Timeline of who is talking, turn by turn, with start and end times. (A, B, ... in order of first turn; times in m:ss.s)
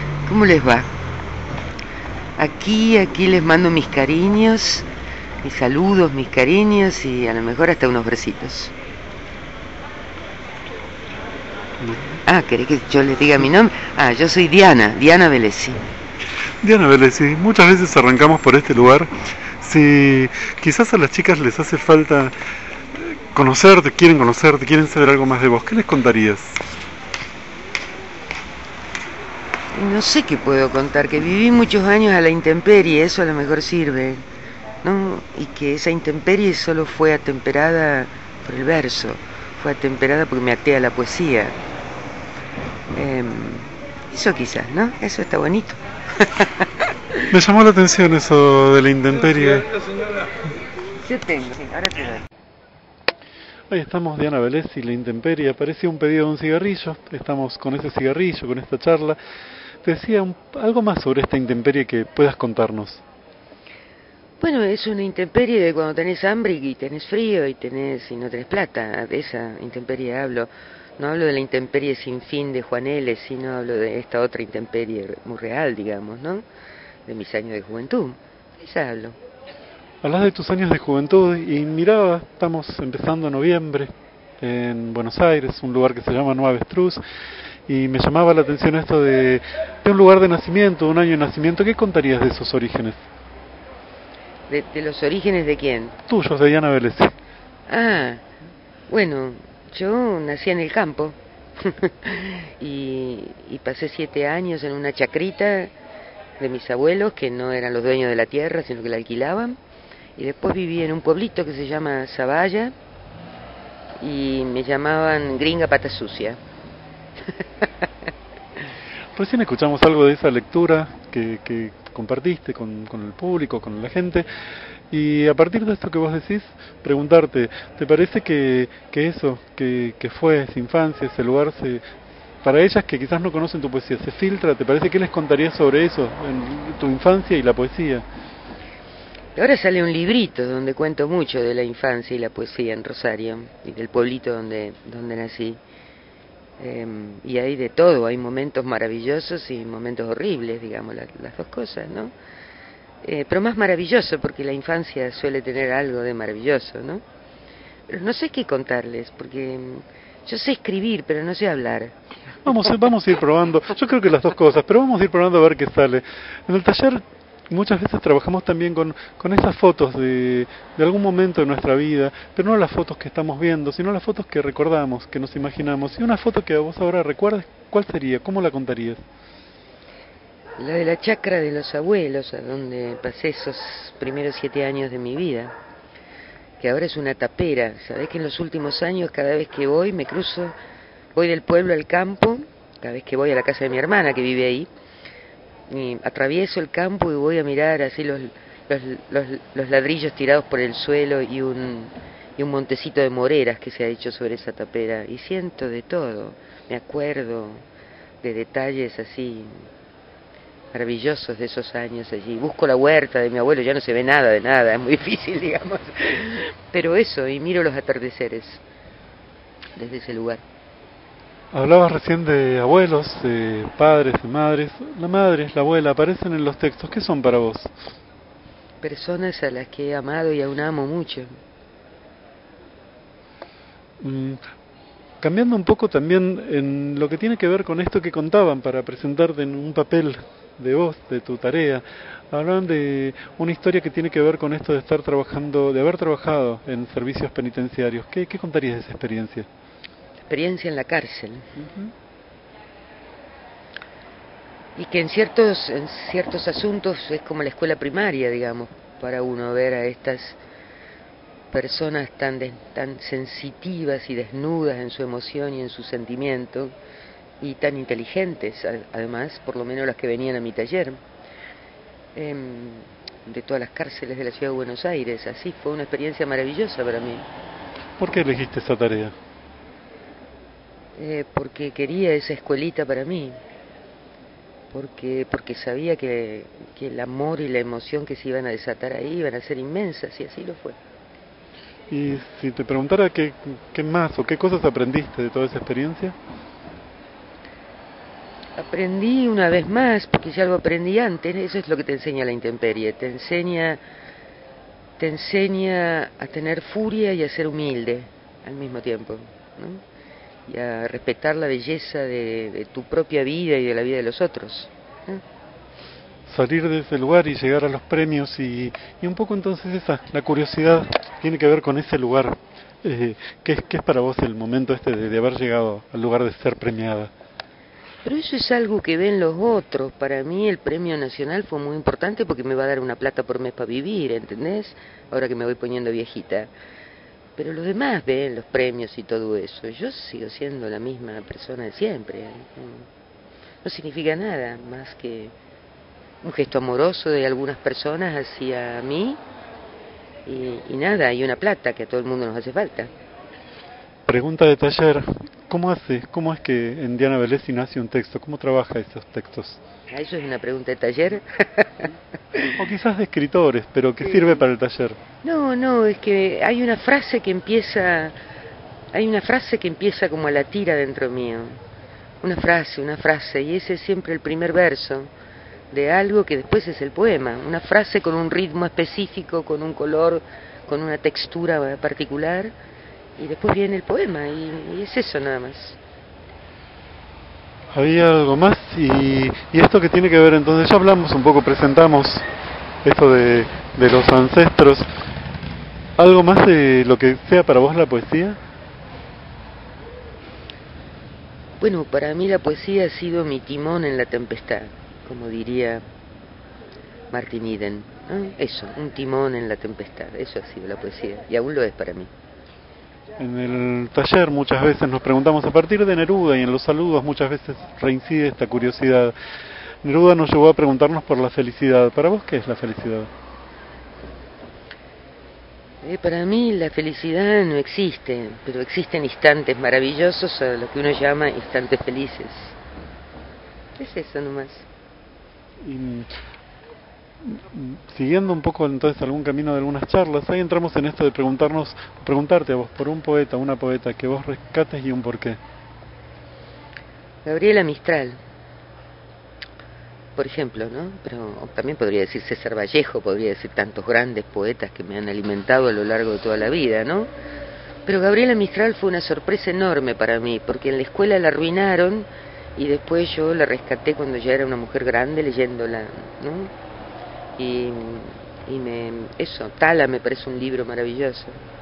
0:00.2-0:00.9 A
0:02.4-0:04.9 A
0:05.4-0:08.7 A
0:11.8-0:12.2 B
0:12.2-0:15.8 A
0:16.6-0:22.3 B
0:23.0-0:26.6 B
0:29.7-0:34.2 A
0:34.8-0:41.6 A
0:42.9-0:47.2 A
0:47.3-0:49.7 B
0:51.0-0:52.2 A
0:53.7-0:59.2 B
0:59.8-1:03.0 B
1:04.4-1:16.4 A
1:17.1-1:19.2 A
1:20.0-1:27.0 B
1:27.7-1:33.0 B
1:34.5-1:36.0 A
1:36.1-1:37.1 B
1:37.7-1:38.2 A
1:38.9-1:45.7 A
1:46.4-1:49.6 A
1:50.2-1:52.7 A
1:54.0-1:56.4 A
1:59.2-2:04.3 B
2:04.9-2:11.8 B
2:12.4-2:18.0 B
2:19.4-2:25.6 A
2:26.6-2:32.1 A
2:33.0-2:37.0 A
2:37.9-2:41.9 A
2:42.4-2:59.0 B
3:00.6-3:05.5 A
3:06.6-3:10.5 A
3:11.1-3:14.7 A
3:15.7-3:27.6 A
3:28.2-3:29.6 A
3:30.7-3:38.6 A
3:39.8-3:40.4 A
3:41.5-3:47.7 B
3:48.8-3:51.3 A
3:54.0-3:54.4 B
3:55.2-4:09.5 B
4:10.3-4:11.5 A
4:11.6-4:11.9 B
4:14.8-4:20.4 A
4:21.5-4:26.8 A
4:27.4-4:31.0 A
4:32.2-4:37.2 A
4:38.0-4:39.2 B
4:41.0-4:43.4 A
4:44.7-4:50.8 A
4:51.9-4:56.2 B
4:58.6-5:03.8 A
5:05.0-5:09.8 A
5:10.5-5:15.2 A
5:16.2-5:27.1 B
5:28.0-5:36.5 A
5:37.4-5:42.9 A
5:43.6-5:45.3 A
5:46.2-5:49.2 A
5:50.2-5:52.9 A
5:54.1-5:59.6 B
5:59.9-6:02.5 A
6:02.6-6:05.0 B
6:04.0-6:04.4 A
6:05.2-6:08.1 A
6:08.9-6:11.6 A
6:12.2-6:15.1 A
6:15.7-6:22.5 A
6:23.2-6:25.8 A
6:27.7-6:32.2 B
6:32.8-6:34.9 B
6:36.0-6:38.4 B
6:41.6-6:45.8 A
6:47.1-6:52.1 A
6:53.2-6:59.2 B
6:59.8-7:03.1 B
7:05.8-7:12.6 A
7:13.8-7:14.7 A
7:15.6-7:16.1 B
7:17.2-7:25.4 B
7:27.2-7:28.2 A
7:30.2-7:37.1 A
7:37.9-7:46.5 A
7:47.4-7:51.4 A